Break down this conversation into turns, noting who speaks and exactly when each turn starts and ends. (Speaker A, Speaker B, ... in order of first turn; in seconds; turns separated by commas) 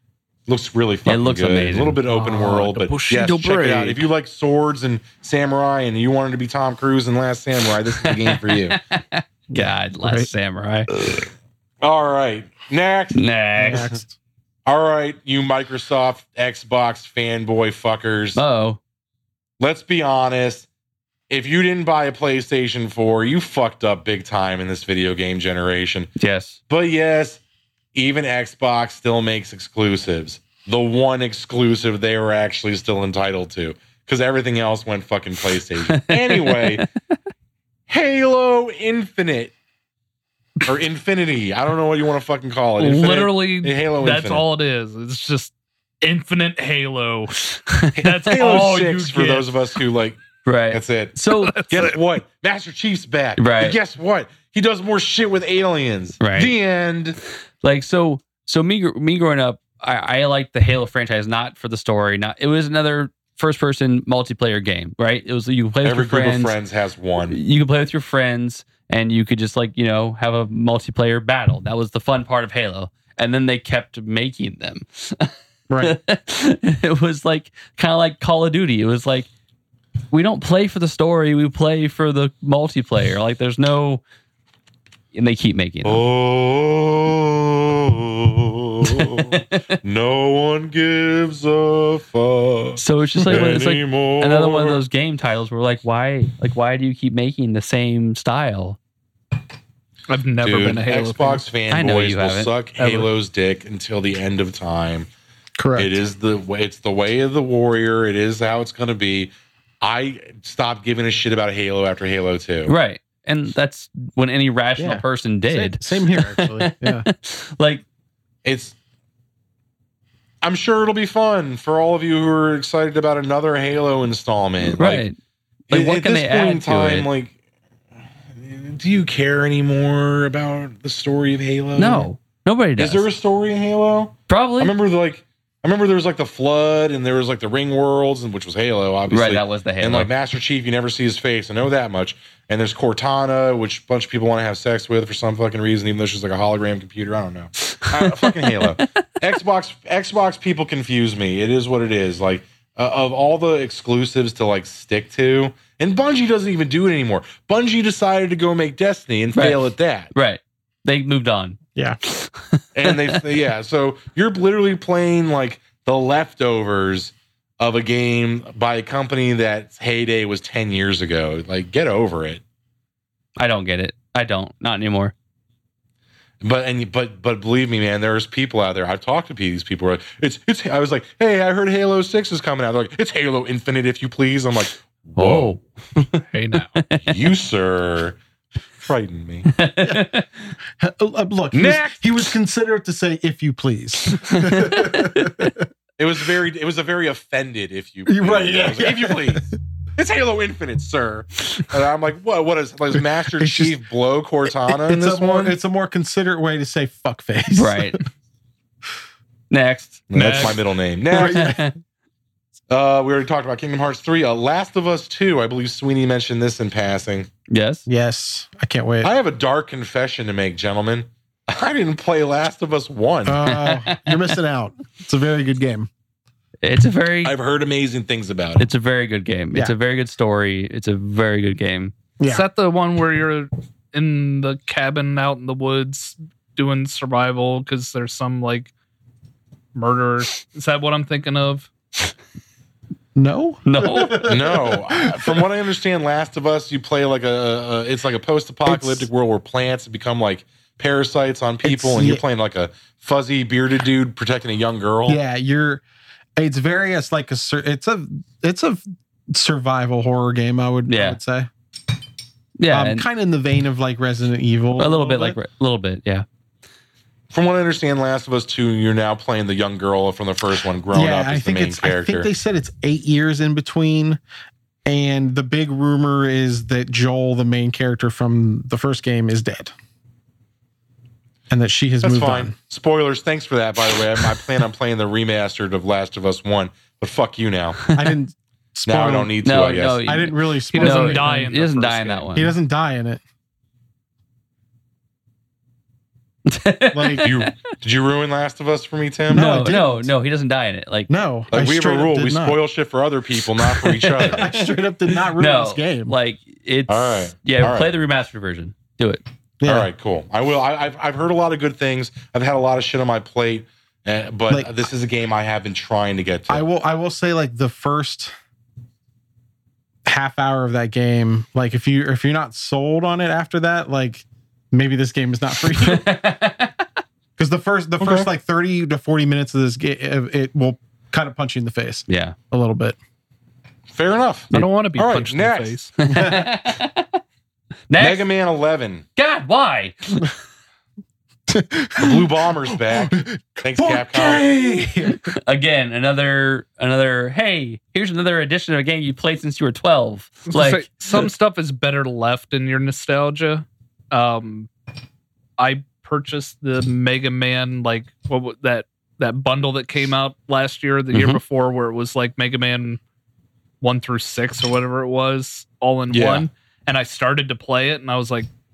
Speaker A: 0.5-8.8, Speaker B: 1.1-2.0, Speaker C: 2.1-4.1, Speaker B: 8.2-10.9, Speaker D: 9.5-10.3, Speaker A: 11.8-13.8, Speaker B: 13.1-13.9, Speaker D: 13.6-14.2, Speaker A: 14.7-18.4, Speaker B: 18.3-18.8, Speaker A: 19.6-20.7, Speaker A: 21.3-26.1, Speaker B: 26.2-26.6, Speaker A: 26.7-27.4, Speaker A: 27.9-36.9, Speaker B: 36.0-36.8, Speaker A: 37.9-39.5, Speaker A: 40.6-44.4, Speaker C: 42.8-49.6, Speaker A: 48.0-50.2, Speaker B: 50.4-51.7, Speaker A: 50.7-51.1, Speaker C: 51.4-51.9, Speaker A: 51.7-57.2, Speaker B: 53.4-53.8, Speaker B: 56.2-56.5, Speaker B: 57.6-66.5, Speaker A: 65.8-67.4, Speaker B: 67.3-79.3, Speaker D: 75.7-76.0, Speaker B: 80.1-84.0, Speaker B: 85.1-86.0, Speaker A: 85.8-94.8, Speaker B: 88.9-89.8, Speaker B: 92.8-98.8, Speaker C: 100.1-101.4, Speaker A: 100.4-105.1, Speaker B: 101.7-102.5, Speaker C: 102.8-103.1, Speaker D: 105.6-106.0, Speaker A: 105.8-112.7, Speaker B: 112.7-117.8, Speaker D: 114.8-117.1, Speaker A: 118.4-118.8, Speaker A: 120.4-125.1, Speaker B: 124.6-125.2, Speaker B: 125.7-127.1, Speaker A: 125.7-127.3, Speaker A: 128.3-132.1, Speaker B: 131.8-133.1, Speaker A: 132.8-160.1, Speaker B: 134.3-134.7, Speaker B: 139.1-140.1, Speaker B: 159.3-161.6, Speaker B: 162.1-163.1, Speaker A: 162.7-172.4, Speaker B: 173.4-175.1, Speaker A: 176.4-185.6, Speaker B: 185.2-186.2, Speaker C: 186.3-186.7, Speaker B: 186.8-187.1, Speaker A: 187.0-188.2, Speaker A: 188.8-189.5, Speaker B: 189.5-190.3, Speaker D: 189.8-190.1, Speaker D: 190.8-195.7, Speaker A: 191.5-192.0, Speaker B: 194.2-195.5, Speaker A: 196.0-205.5, Speaker D: 198.1-199.5, Speaker D: 202.9-203.8, Speaker D: 204.7-208.0, Speaker B: 207.5-208.0, Speaker B: 209.5-210.5, Speaker A: 210.1-211.5, Speaker C: 210.1-210.6, Speaker D: 211.1-211.7, Speaker B: 211.1-211.7, Speaker A: 212.7-217.3, Speaker B: 217.5-217.9, Speaker D: 217.9-219.1, Speaker A: 219.0-223.4, Speaker D: 223.2-225.9, Speaker B: 223.4-224.1, Speaker B: 226.6-227.3, Speaker A: 227.2-228.7, Speaker B: 228.6-231.9, Speaker D: 232.2-232.4, Speaker C: 232.3-238.7, Speaker C: 239.7-241.7, Speaker D: 243.2-245.4, Speaker B: 243.7-244.3, Speaker A: 244.2-255.2, Speaker D: 248.6-249.1, Speaker D: 251.6-252.2, Speaker D: 255.1-255.8, Speaker D: 256.4-261.5, Speaker B: 260.9-261.2, Speaker B: 262.6-263.1, Speaker D: 262.7-265.4, Speaker B: 264.8-266.2, Speaker A: 267.3-272.3, Speaker D: 270.9-274.2, Speaker D: 274.9-279.7, Speaker D: 281.5-282.5, Speaker A: 282.0-287.8, Speaker D: 287.9-289.4, Speaker A: 288.9-290.0, Speaker B: 289.4-292.5, Speaker D: 290.0-291.5, Speaker C: 290.7-292.3, Speaker D: 292.3-293.2, Speaker B: 296.5-297.5, Speaker D: 296.9-297.3, Speaker A: 297.2-299.5, Speaker D: 299.3-300.1, Speaker B: 299.3-301.1, Speaker D: 301.1-302.6, Speaker A: 301.5-304.5, Speaker B: 303.7-304.7, Speaker D: 304.2-306.1, Speaker B: 305.3-309.2, Speaker A: 306.9-307.9, Speaker D: 309.6-309.9, Speaker A: 309.6-316.6, Speaker D: 316.5-318.3, Speaker D: 320.1-326.2, Speaker B: 325.8-326.8, Speaker D: 327.4-333.0, Speaker A: 328.0-328.3, Speaker B: 332.1-332.4, Speaker A: 333.9-335.8, Speaker C: 334.5-335.9, Speaker B: 336.0-337.2, Speaker D: 336.1-336.5, Speaker B: 337.9-338.2, Speaker A: 338.0-339.0, Speaker B: 339.1-340.3, Speaker D: 341.5-345.3, Speaker A: 342.0-344.4, Speaker B: 345.2-351.2, Speaker C: 350.5-354.7, Speaker C: 355.6-363.0, Speaker B: 361.1-361.4, Speaker C: 363.8-368.5, Speaker A: 366.1-366.5